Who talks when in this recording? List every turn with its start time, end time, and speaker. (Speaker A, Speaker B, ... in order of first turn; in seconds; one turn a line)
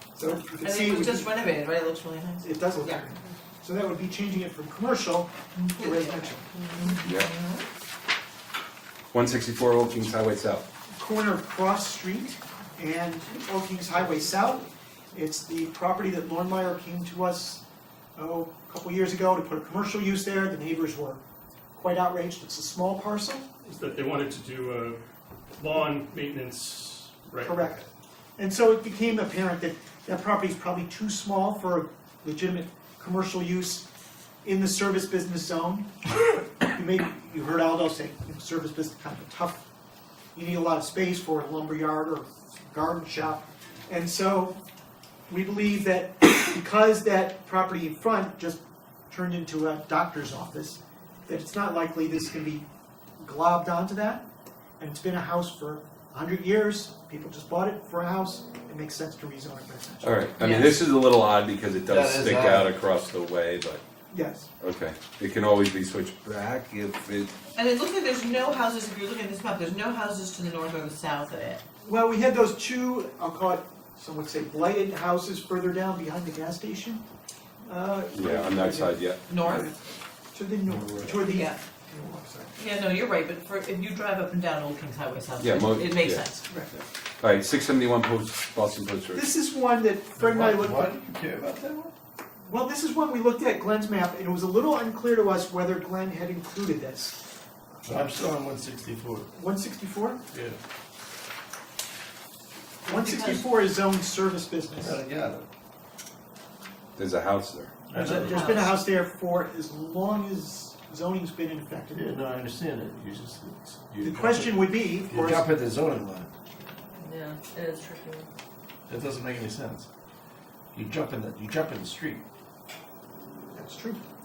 Speaker A: 0.2-1.3
Speaker B: 0.5-3.0
Speaker A: 2.4-6.9
Speaker B: 5.5-7.6
Speaker C: 7.0-7.3
Speaker C: 9.1-10.6
Speaker A: 10.9-17.6
Speaker A: 18.1-21.2
Speaker A: 21.7-23.5
Speaker D: 23.6-25.0
Speaker D: 25.6-27.8
Speaker A: 27.4-27.8
Speaker A: 28.4-33.9
Speaker A: 34.4-39.6
Speaker A: 40.3-44.6
Speaker A: 45.3-52.7
Speaker A: 53.2-54.2
Speaker A: 54.8-60.2
Speaker C: 60.0-63.8
Speaker B: 60.4-60.8
Speaker E: 61.9-62.7
Speaker A: 64.1-64.5
Speaker C: 64.6-67.3
Speaker B: 67.5-71.6
Speaker A: 71.8-77.0
Speaker A: 77.7-79.8
Speaker C: 78.1-79.2
Speaker B: 79.3-79.7
Speaker A: 80.3-82.6
Speaker E: 80.7-81.1
Speaker B: 81.2-81.6
Speaker B: 82.6-86.5
Speaker C: 85.4-86.2
Speaker A: 86.5-86.8
Speaker C: 87.2-89.3
Speaker A: 89.1-90.9
Speaker E: 90.2-91.9
Speaker A: 92.5-97.2
Speaker E: 97.8-99.3
Speaker A: 99.3-100.2
Speaker E: 100.3-100.6
Speaker A: 102.8-105.0
Speaker B: 102.9-103.5
Speaker E: 104.8-105.5
Speaker C: 107.0-107.8
Speaker E: 107.9-108.6
Speaker B: 107.9-108.8
Speaker A: 108.0-112.1
Speaker E: 111.9-116.3
Speaker A: 114.0-115.5
Speaker B: 117.0-118.3
Speaker E: 118.9-119.9
Speaker E: 120.7-122.2
Speaker A: 123.5-124.0